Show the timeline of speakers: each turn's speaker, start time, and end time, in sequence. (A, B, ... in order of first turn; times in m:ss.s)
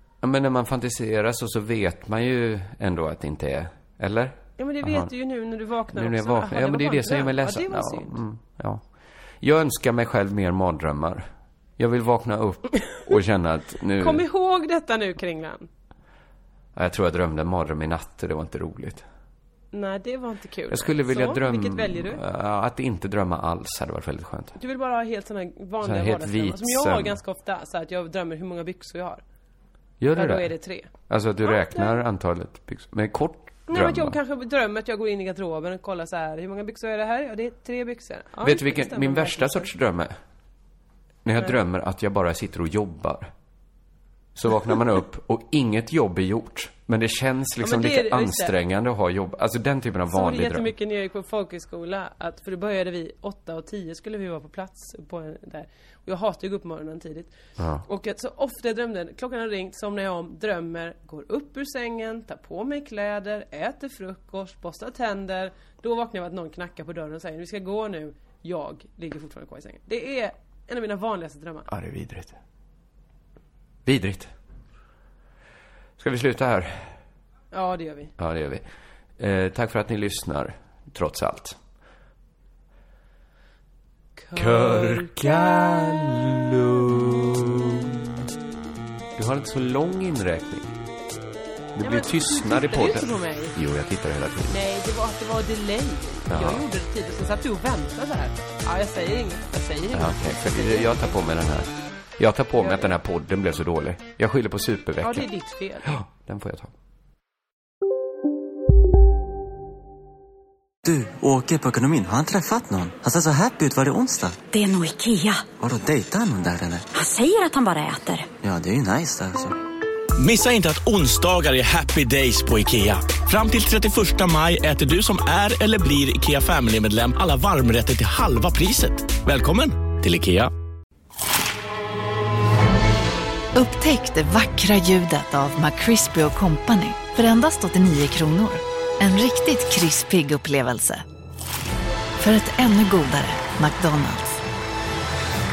0:00.2-0:05.1 A
0:04.6-0:08.2 B
0:05.9-0:08.8 A
0:09.4-0:11.3 A
0:11.8-0:14.2 A
0:14.0-0:15.7 B
0:16.8-0:19.0 A
0:19.7-0:22.2 B
0:20.7-0:24.6 A
0:24.6-0:29.2 B
0:25.8-0:27.2 A
0:30.0-0:30.5 A
0:30.2-0:30.9 B
0:31.0-0:34.2 A
0:31.4-0:32.0 B
0:33.7-0:39.7 B
0:38.4-0:40.2 A
0:41.2-0:43.3 A
0:44.4-0:50.7 A
0:47.6-0:48.5 B
0:50.1-0:57.3 B
0:57.6-0:57.8 A
0:57.8-1:11.7 B
1:11.7-1:12.4 A
1:13.8-1:14.3 A
1:16.0-1:16.9 A
1:17.5-1:18.1 B
1:18.2-1:18.6 A
1:19.2-1:21.6 A
1:24.2-1:25.5 B
1:24.3-1:27.9 A
1:29.2-1:30.7 A
1:31.8-1:34.6 A
1:31.8-1:33.6 B
1:34.5-1:41.1 B
1:36.3-1:36.6 A
1:39.9-1:45.3 A
1:42.6-1:42.9 B
1:45.0-1:45.9 B
1:45.8-1:46.7 A
1:50.8-1:54.4 C
1:54.5-1:55.4 D
1:55.5-1:56.9 C
1:57.0-1:58.3 D
1:58.4-1:59.5 C
2:00.2-2:10.5 E
2:13.6-2:21.0 F
2:22.2-2:24.4 F